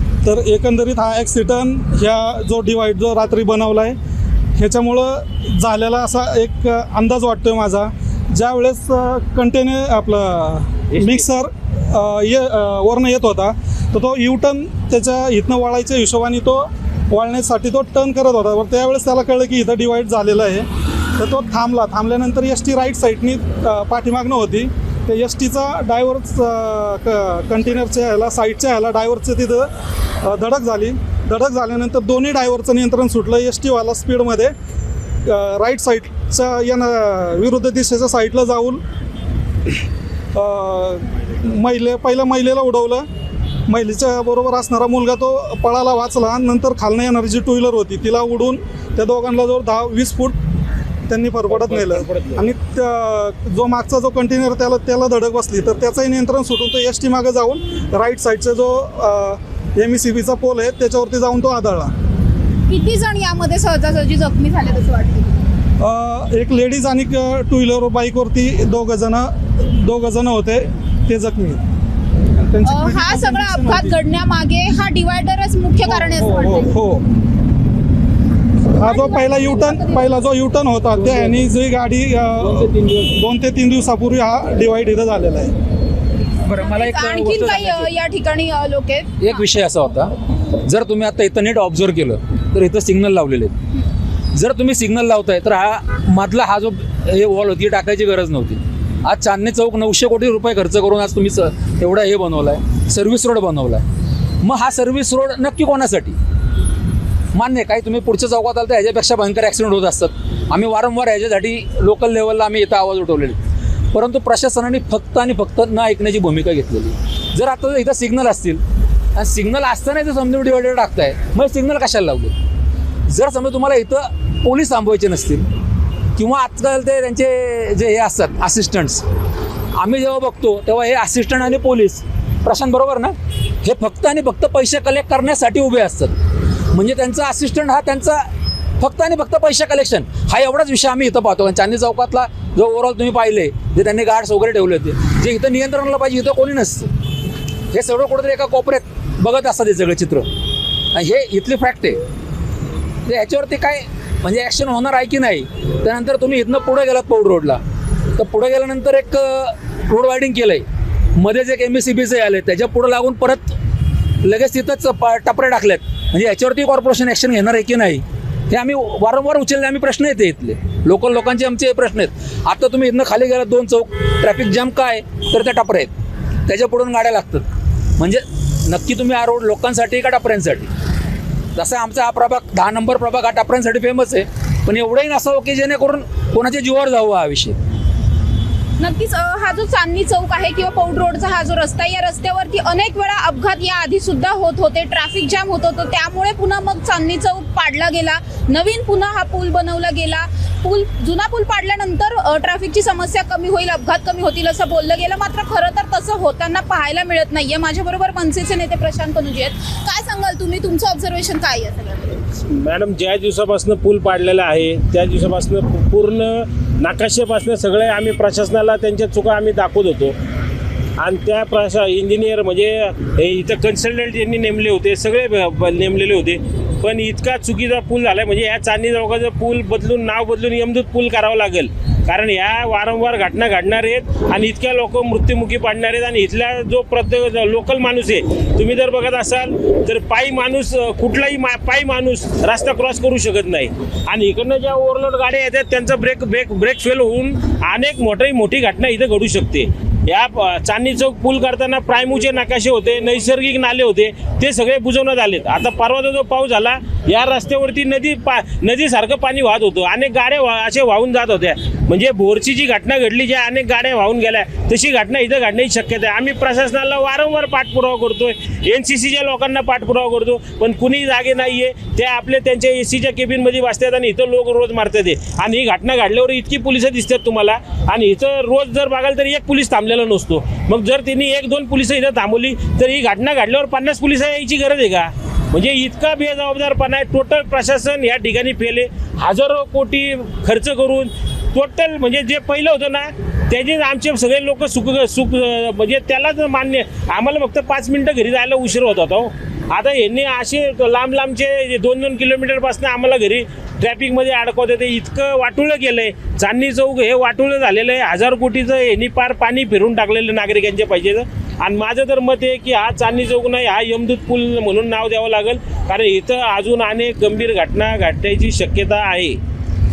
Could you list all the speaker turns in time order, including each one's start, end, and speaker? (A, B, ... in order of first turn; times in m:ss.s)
0:00.2-0:04.0 A
0:04.6-0:29.7 A
0:10.9-0:11.2 B
0:30.2-0:34.5 A
0:35.2-0:38.8 A
0:40.3-0:43.0 A
0:43.7-0:50.4 A
0:51.1-1:01.9 A
0:51.5-0:52.4 B
1:02.7-1:05.4 C
1:05.8-1:11.6 A
1:12.4-1:13.9 A
1:12.6-1:16.7 C
1:15.9-1:17.0 A
1:18.7-1:25.5 A
1:18.8-1:20.3 C
1:21.0-1:21.5 D
1:22.4-1:23.1 D
1:26.4-1:27.9 D
1:26.6-1:29.4 C
1:29.2-1:33.5 D
1:34.3-1:43.8 D
1:44.4-1:46.2 D
1:47.3-1:53.4 D
1:53.9-1:58.6 D
1:59.1-2:02.3 D
2:03.1-2:05.5 D
2:06.2-2:09.0 D
2:09.7-2:16.1 D
2:16.7-2:18.2 D
2:18.8-2:26.9 D
2:27.7-2:30.3 D
2:30.9-2:32.0 D
2:33.0-2:37.6 D
2:38.2-2:40.6 D
2:41.2-2:43.6 D
2:44.2-2:55.9 D
2:56.5-2:57.4 D
2:58.0-3:00.7 D
3:01.6-3:07.6 D
3:08.8-3:32.2 C
3:32.5-3:40.2 B
3:41.0-5:19.4 B